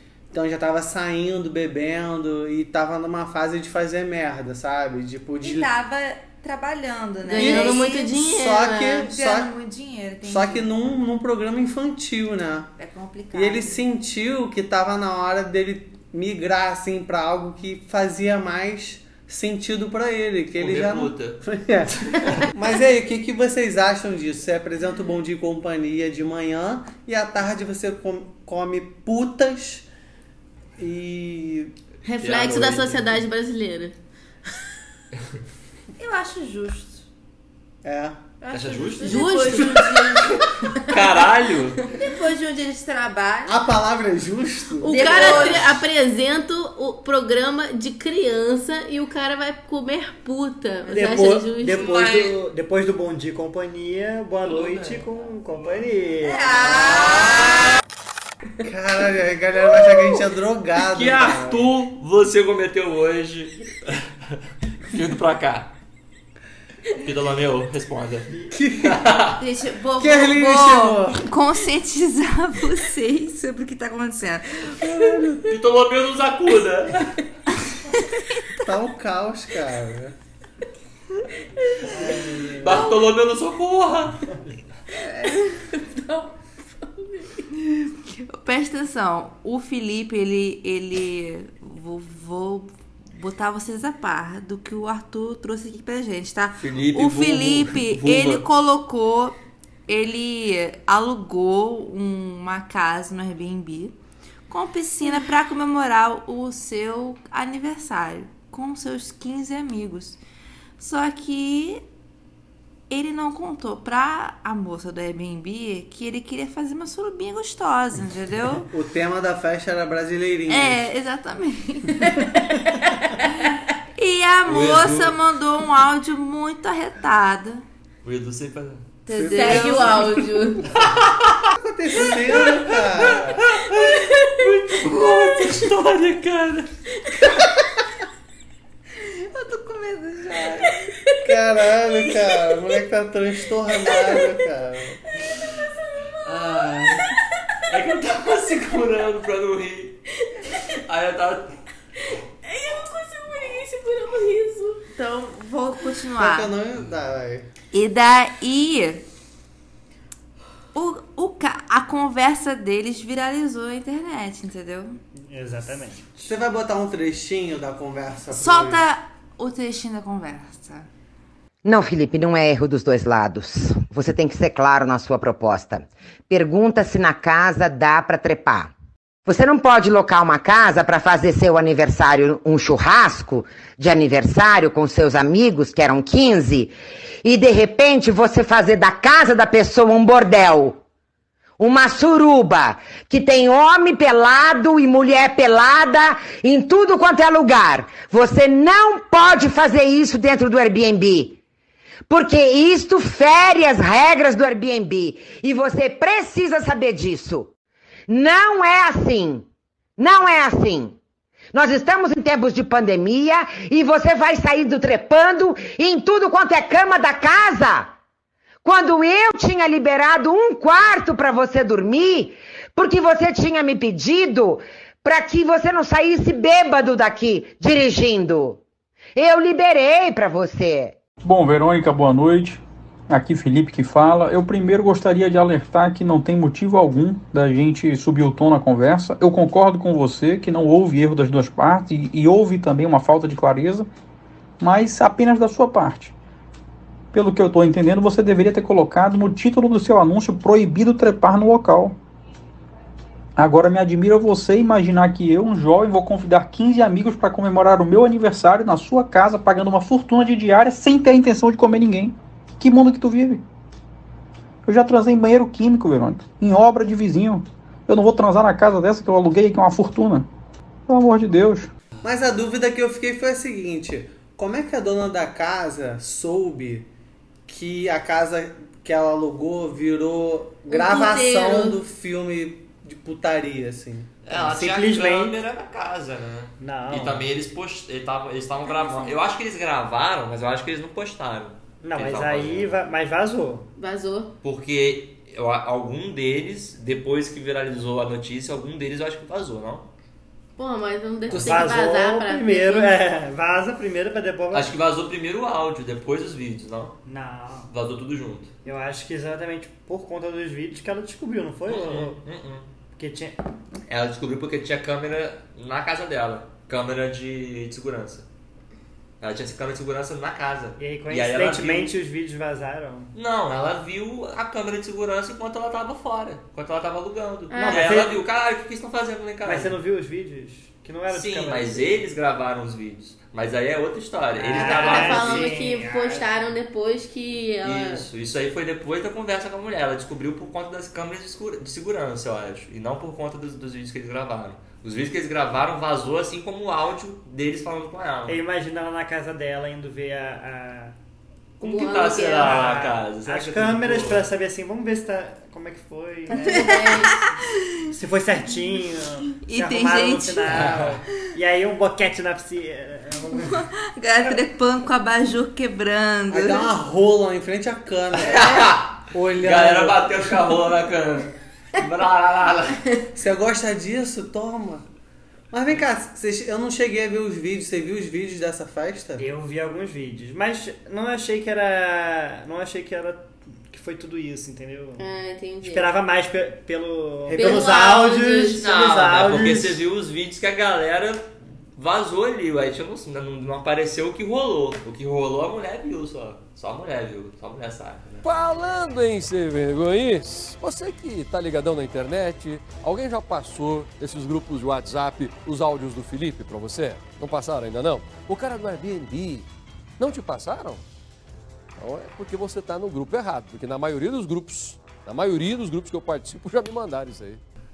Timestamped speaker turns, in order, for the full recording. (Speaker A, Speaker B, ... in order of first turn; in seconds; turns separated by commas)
Speaker A: 0.3-5.7, Speaker B: 5.4-8.1, Speaker C: 7.3-9.1, Speaker A: 7.3-9.5, Speaker B: 9.0-10.7, Speaker A: 10.2-12.7, Speaker B: 12.8-13.8, Speaker A: 13.3-29.9, Speaker D: 20.6-21.4, Speaker D: 22.0-22.4, Speaker A: 30.8-31.7, Speaker C: 32.0-34.0, Speaker D: 32.2-33.2, Speaker B: 36.0-37.0, Speaker A: 37.8-38.2, Speaker B: 38.4-40.4, Speaker D: 38.5-39.7, Speaker C: 39.0-40.0, Speaker D: 40.4-41.8, Speaker B: 41.9-43.6, Speaker A: 43.5-45.6, Speaker C: 44.8-52.0, Speaker B: 44.9-45.8, Speaker E: 50.9-56.5, Speaker D: 51.7-52.4, Speaker D: 54.5-55.0, Speaker B: 56.2-57.6, Speaker A: 56.9-57.3, Speaker A: 58.6-61.7, Speaker D: 60.9-64.0, Speaker D: 64.9-65.7, Speaker D: 67.0-68.3, Speaker A: 68.5-69.0, Speaker D: 68.8-69.4, Speaker B: 69.4-74.8, Speaker A: 70.0-71.2, Speaker A: 74.8-75.5, Speaker D: 75.5-77.2, Speaker B: 78.1-78.5, Speaker A: 78.6-80.2, Speaker E: 81.9-82.8, Speaker D: 82.6-84.2, Speaker B: 85.0-85.5, Speaker C: 85.6-87.5, Speaker B: 87.7-99.4, Speaker D: 96.6-98.4, Speaker B: 99.9-104.0, Speaker B: 104.5-110.2, Speaker B: 110.8-111.8, Speaker B: 112.9-118.7, Speaker A: 118.6-120.9, Speaker B: 120.5-122.3, Speaker B: 123.4-127.7, Speaker D: 124.5-125.2, Speaker D: 128.0-128.8, Speaker B: 129.1-130.3, Speaker A: 129.1-130.1, Speaker C: 129.3-130.7, Speaker D: 130.8-131.4, Speaker A: 131.6-133.5, Speaker D: 132.4-136.7, Speaker C: 134.0-134.3, Speaker B: 139.0-140.9, Speaker A: 141.2-145.0, Speaker D: 146.2-147.1, Speaker D: 147.7-150.0, Speaker D: 150.8-151.6, Speaker C: 152.1-154.8, Speaker B: 154.9-156.5, Speaker A: 156.2-157.5, Speaker B: 157.7-159.0, Speaker B: 160.7-165.0, Speaker E: 165.3-166.3, Speaker A: 166.2-168.8, Speaker B: 168.3-170.9, Speaker F: 171.6-178.7, Speaker F: 179.3-190.8, Speaker F: 191.6-201.4, Speaker F: 202.1-207.5, Speaker F: 208.1-209.5, Speaker F: 210.0-211.0, Speaker F: 211.5-217.9, Speaker F: 218.6-228.6, Speaker F: 229.2-231.0, Speaker G: 231.2-243.9, Speaker G: 244.6-246.1, Speaker G: 247.1-252.0, Speaker G: 253.4-263.4, Speaker G: 264.7-270.3, Speaker G: 270.9-271.7, Speaker A: 272.0-276.9, Speaker A: 277.5-284.1, Speaker C: 280.7-281.7, Speaker D: 284.2-292.8, Speaker E: 284.3-285.4, Speaker E: 286.6-287.3, Speaker E: 291.8-293.7, Speaker C: 293.8-294.3, Speaker D: 294.4-299.9, Speaker C: 300.6-303.0, Speaker E: 301.3-304.7, Speaker D: 301.3-301.6, Speaker D: 304.5-307.0, Speaker E: 307.1-307.7, Speaker D: 307.7-308.5, Speaker E: 308.6-312.2, Speaker D: 311.7-312.7, Speaker E: 312.9-313.4, Speaker D: 313.9-318.2, Speaker D: 319.2-321.9, Speaker E: 320.8-323.1, Speaker D: 323.1-329.8, Speaker C: 327.5-327.9, Speaker E: 327.5-328.2, Speaker E: 329.4-332.0, Speaker D: 331.1-335.5, Speaker E: 334.4-336.5, Speaker C: 334.5-338.1, Speaker D: 337.6-348.4, Speaker E: 348.3-350.9, Speaker C: 351.6-352.7, Speaker D: 351.6-354.3, Speaker E: 352.4-356.9, Speaker B: 356.3-357.3, Speaker C: 356.3-357.1, Speaker E: 357.9-363.6, Speaker B: 359.4-360.8, Speaker D: 360.5-361.0, Speaker B: 363.5-366.7, Speaker A: 366.3-370.1, Speaker D: 368.2-372.8, Speaker A: 373.1-374.9, Speaker A: 375.5-379.2, Speaker E: 379.2-385.1, Speaker C: 385.0-385.9, Speaker E: 385.6-389.8, Speaker A: 387.3-387.8, Speaker C: 387.3-388.6, Speaker D: 388.6-391.2, Speaker D: 391.8-398.3, Speaker H: 398.2-409.5, Speaker H: 410.0-410.8, Speaker H: 411.8-417.4